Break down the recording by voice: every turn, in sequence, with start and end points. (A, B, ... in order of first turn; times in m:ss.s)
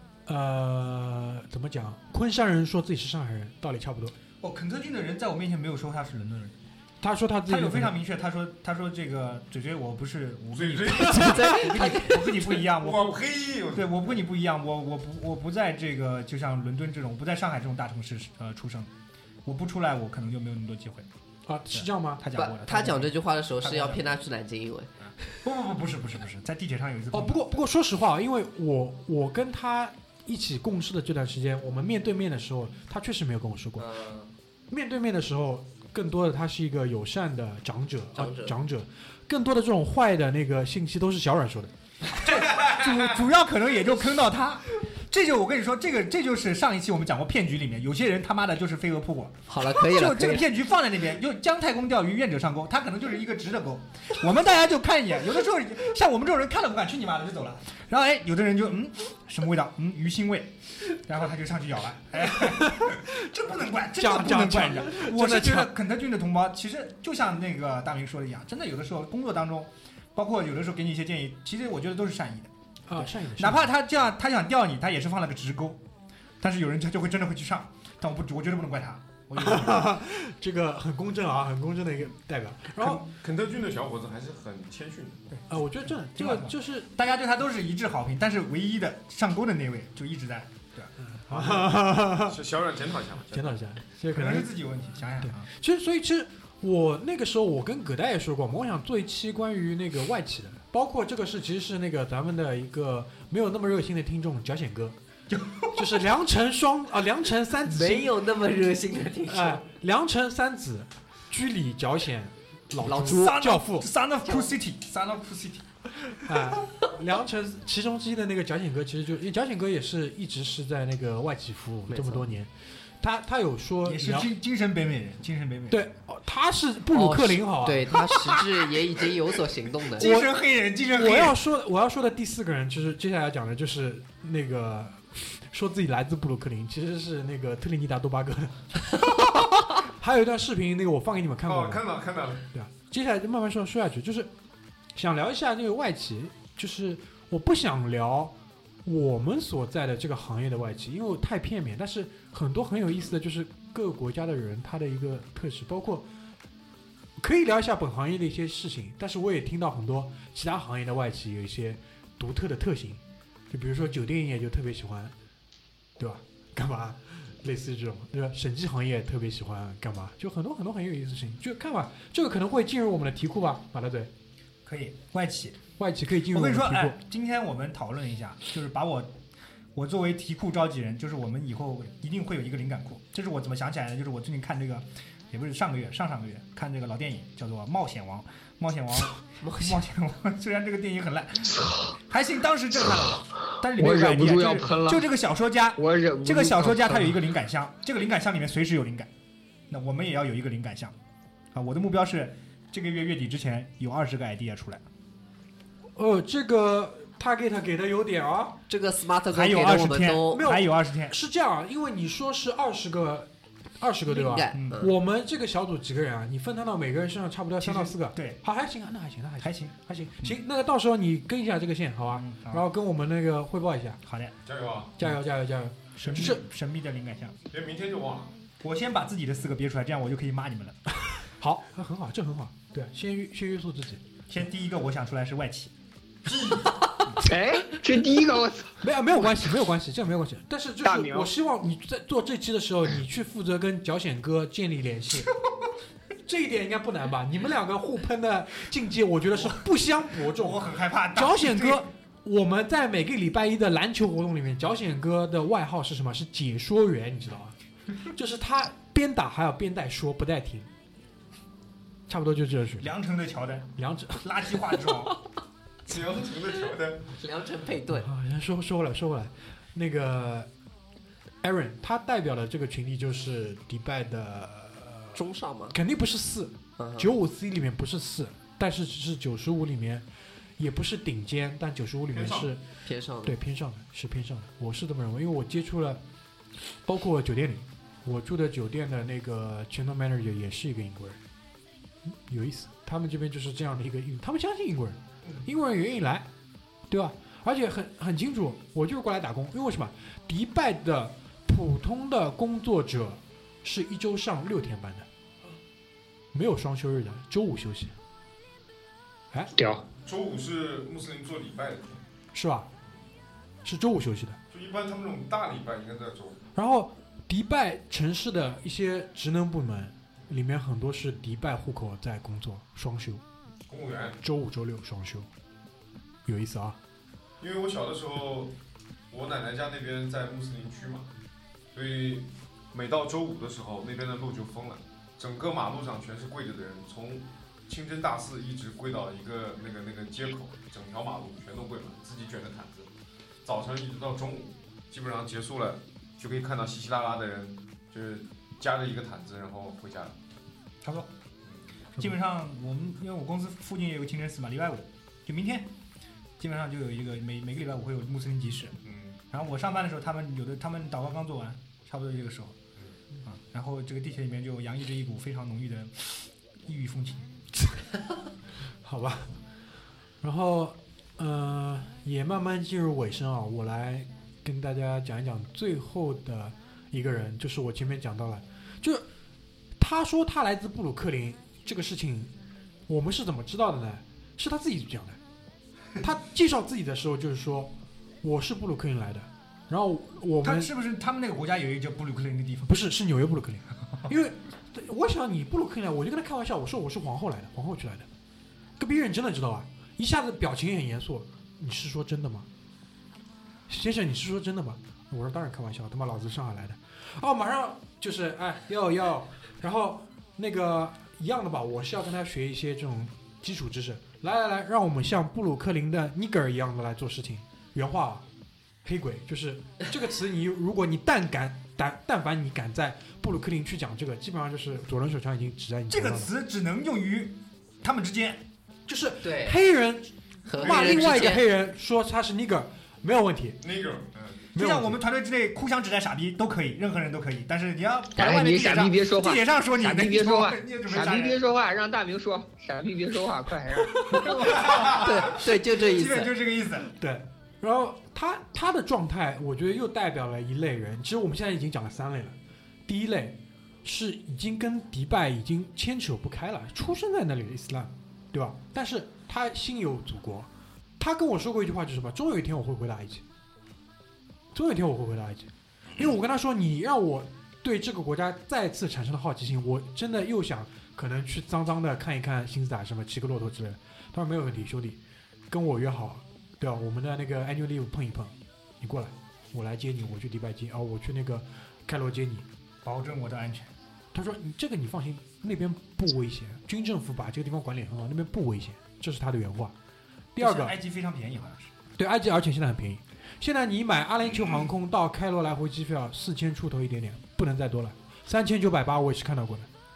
0:00.3-0:04.2 A
0:04.4-0:06.6 B
0:07.0-0:07.9 A
0:07.5-0:13.2 B
0:10.5-0:11.6 C
0:11.1-0:11.6 A
0:11.2-0:12.3 D
0:12.4-0:14.2 C
0:13.7-0:18.9 B
0:19.4-0:21.1 B
0:21.5-0:22.2 A
0:21.7-0:24.2 B
0:22.3-0:25.0 D
0:25.4-0:27.6 B
0:27.1-0:33.9 A
0:33.8-0:34.3 D
0:34.7-0:41.7 A
0:38.2-0:38.5 D
0:42.3-1:15.8 B
0:42.4-0:43.0 C
0:49.5-0:50.5 D
1:02.4-1:03.0 A
1:04.0-1:05.7 A
1:12.9-1:13.7 A
1:16.4-1:19.9 B
1:19.4-1:23.0 A
1:23.2-1:25.3 C
1:25.5-1:26.9 A
1:26.2-1:31.7 B
1:31.2-1:32.4 A
1:32.2-1:33.6 C
1:33.3-1:34.5 A
1:34.1-1:35.5 B
1:35.2-1:45.0 A
1:45.3-1:45.7 B
1:45.7-1:48.1 A
1:47.7-1:49.6 D
1:49.3-1:53.9 A
1:52.8-1:53.2 D
1:53.0-1:55.6 B
1:54.2-1:54.5 D
1:56.2-2:04.3 A
2:01.9-2:02.3 D
2:03.8-2:05.8 B
2:05.7-2:08.2 A
2:06.9-2:10.1 D
2:09.9-2:11.4 B
2:10.0-2:10.3 A
2:11.0-2:21.8 A
2:21.4-2:22.5 C
2:22.5-2:24.3 A
2:25.0-2:28.3 A
2:28.8-2:36.1 A
2:37.2-2:45.1 A
2:46.0-2:54.1 A
2:54.6-2:55.6 B
2:55.8-2:57.0 A
2:56.3-2:59.1 B
2:59.8-3:19.1 B
3:09.4-3:09.8 D
3:13.7-3:15.1 E
3:15.8-3:17.2 E
3:19.7-3:21.0 B
3:21.5-3:24.8 B
3:26.0-3:28.6 A
3:28.7-3:30.5 D
3:29.3-3:31.2 B
3:29.7-3:44.0 A
3:34.1-3:34.9 D
3:34.6-3:34.8 B
3:37.6-3:38.4 B
3:39.4-3:40.4 B
3:42.2-3:42.6 B
3:44.0-3:44.4 B
3:44.4-3:45.0 C
3:45.0-3:46.4 A
3:46.0-3:47.4 B
3:47.5-3:48.3 C
3:48.6-3:50.8 B
3:51.1-3:54.0 A
3:54.3-3:55.7 B
3:56.2-3:57.0 C
3:57.2-3:58.8 E
3:58.8-4:05.3 A
4:00.8-4:01.3 E
4:06.3-4:17.6 A
4:10.2-4:11.8 B
4:18.1-4:20.7 A
4:22.1-4:22.9 A
4:22.8-4:23.7 B
4:23.8-4:24.3 A
4:24.2-4:25.2 B
4:25.9-4:27.2 C
4:27.2-4:28.1 D
4:27.9-4:30.5 A
4:31.4-4:35.2 A
4:35.1-4:35.8 D
4:35.7-4:40.0 A
4:36.8-4:37.1 D
4:40.6-4:42.6 A
4:42.1-4:42.5 C
4:42.9-4:43.4 D
4:43.2-4:46.0 A
4:46.8-4:51.2 A
4:52.3-4:56.3 A
4:56.9-5:05.1 A
5:06.3-5:08.0 A
5:09.6-5:09.8 E
5:10.0-5:12.0 C
5:12.3-5:12.7 A
5:13.6-5:14.4 A
5:14.5-5:16.4 C
5:16.6-5:23.2 A
5:23.7-5:24.2 C
5:24.2-5:25.3 A
5:26.3-5:26.8 A
5:27.4-5:28.6 C
5:29.1-5:31.1 C
5:31.7-5:42.9 C
5:43.4-5:50.2 C
5:50.8-5:51.1 B
5:52.0-5:55.7 B
5:56.4-5:58.8 B
5:58.8-5:59.2 C
5:59.3-6:02.6 B
6:03.2-6:07.3 B
6:08.8-6:09.3 A
6:10.2-6:19.1 A
6:19.8-6:22.3 A
6:22.9-6:25.2 A
6:26.0-6:27.7 A
6:28.2-6:30.7 A
6:30.4-6:32.8 B
6:32.7-6:38.1 A
6:38.8-6:42.5 A
6:43.7-6:58.2 A
6:58.8-7:06.3 A
7:05.9-7:08.4 B
7:08.9-7:13.6 A
7:09.2-7:09.6 D
7:10.5-7:11.4 D
7:10.6-7:11.4 C
7:13.6-7:14.4 C
7:14.5-7:21.4 B
7:14.6-7:15.0 A
7:18.2-7:24.2 E
7:24.1-7:26.9 B
7:24.7-7:26.3 D
7:24.7-7:24.9 C
7:26.9-7:32.4 A
7:32.9-7:43.2 A
7:44.5-8:02.5 A
8:02.8-8:03.7 B
8:04.1-8:09.7 A
8:10.4-8:10.7 A
8:10.4-8:11.7 B
8:12.0-8:19.7 A